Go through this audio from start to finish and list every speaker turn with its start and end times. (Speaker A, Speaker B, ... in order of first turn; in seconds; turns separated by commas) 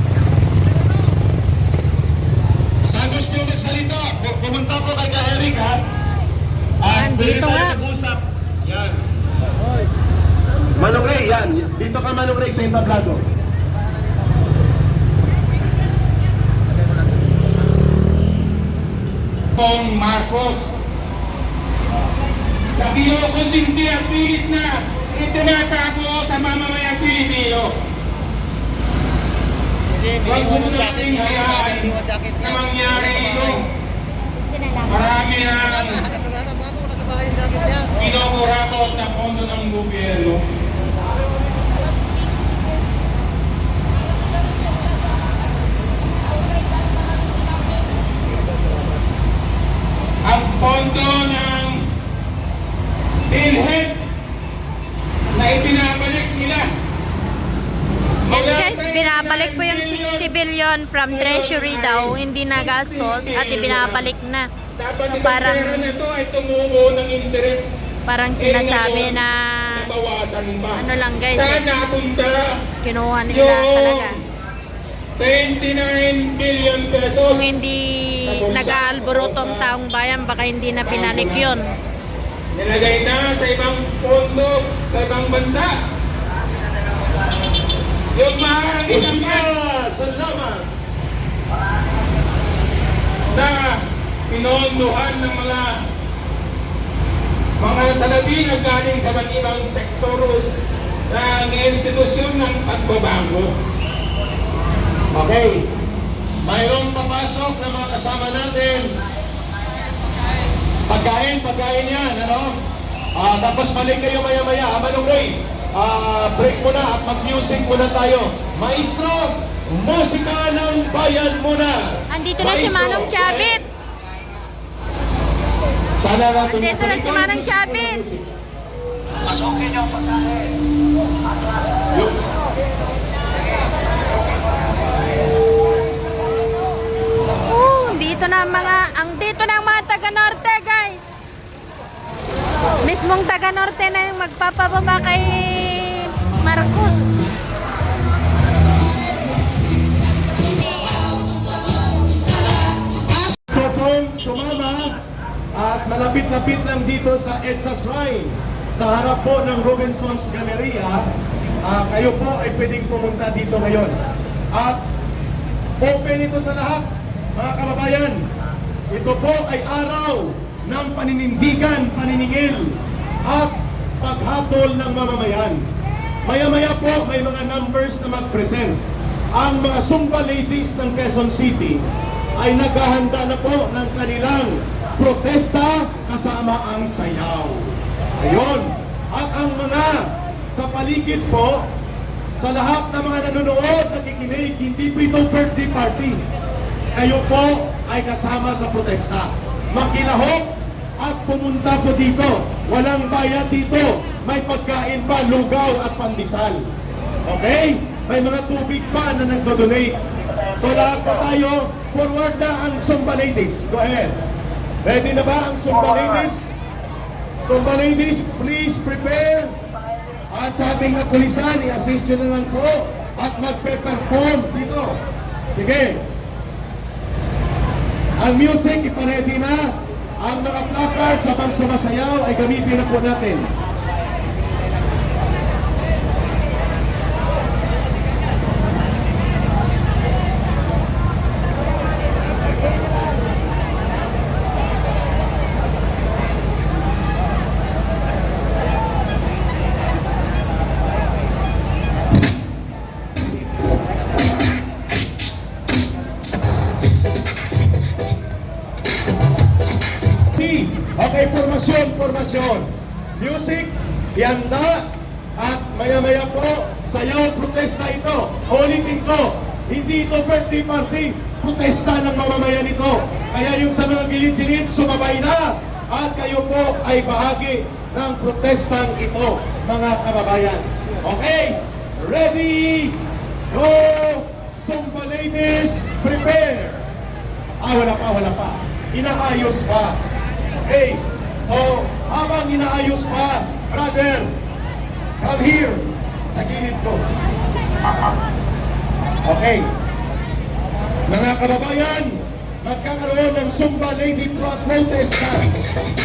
Speaker A: 2.8-5.8, Speaker A: 6.8-9.0, Speaker B: 6.9-7.8, Speaker A: 10.7-13.2, Speaker C: 19.6-20.7, Speaker C: 22.8-27.8, Speaker C: 30.1-33.6, Speaker C: 34.8-36.1, Speaker C: 37.9-40.4, Speaker C: 50.2-51.9, Speaker C: 53.3-54.0, Speaker C: 55.3-56.7, Speaker C: 58.3-60.3, Speaker B: 58.3-64.5, Speaker C: 61.1-64.1, Speaker C: 64.8-67.7, Speaker B: 65.1-65.9, Speaker B: 68.0-69.9, Speaker C: 68.4-69.2, Speaker C: 69.7-72.6, Speaker B: 70.8-71.6, Speaker B: 72.8-74.2, Speaker C: 73.3-74.2, Speaker C: 75.2-77.5, Speaker B: 77.2-81.7, Speaker C: 78.2-79.7, Speaker C: 80.8-81.5, Speaker C: 82.5-85.8, Speaker C: 88.1-89.5, Speaker A: 88.9-90.7, Speaker C: 93.3-95.9, Speaker C: 97.6-100.5, Speaker C: 101.1-103.5, Speaker A: 105.1-105.7, Speaker A: 106.4-108.9, Speaker A: 110.9-112.6, Speaker A: 113.2-123.6, Speaker B: 122.1-123.7, Speaker A: 126.0-128.3, Speaker B: 126.4-128.0, Speaker A: 131.9-132.2, Speaker B: 137.4-141.0, Speaker B: 142.8-147.1, Speaker A: 153.4-155.0, Speaker A: 155.5-161.1, Speaker A: 161.6-164.0, Speaker A: 164.5-164.8, Speaker A: 165.8-168.3, Speaker A: 168.9-175.6, Speaker A: 176.2-178.8, Speaker A: 179.3-191.7, Speaker A: 192.4-196.2, Speaker A: 196.9-206.7, Speaker A: 207.3-214.2, Speaker A: 214.8-216.6, Speaker A: 217.4-219.6, Speaker A: 220.3-226.1, Speaker A: 228.2-233.5, Speaker A: 260.3-286.9, Speaker A: 287.6-290.0, Speaker A: 290.6-294.4, Speaker A: 295.2-297.1, Speaker A: 299.2-299.7, Speaker A: 301.1-305.6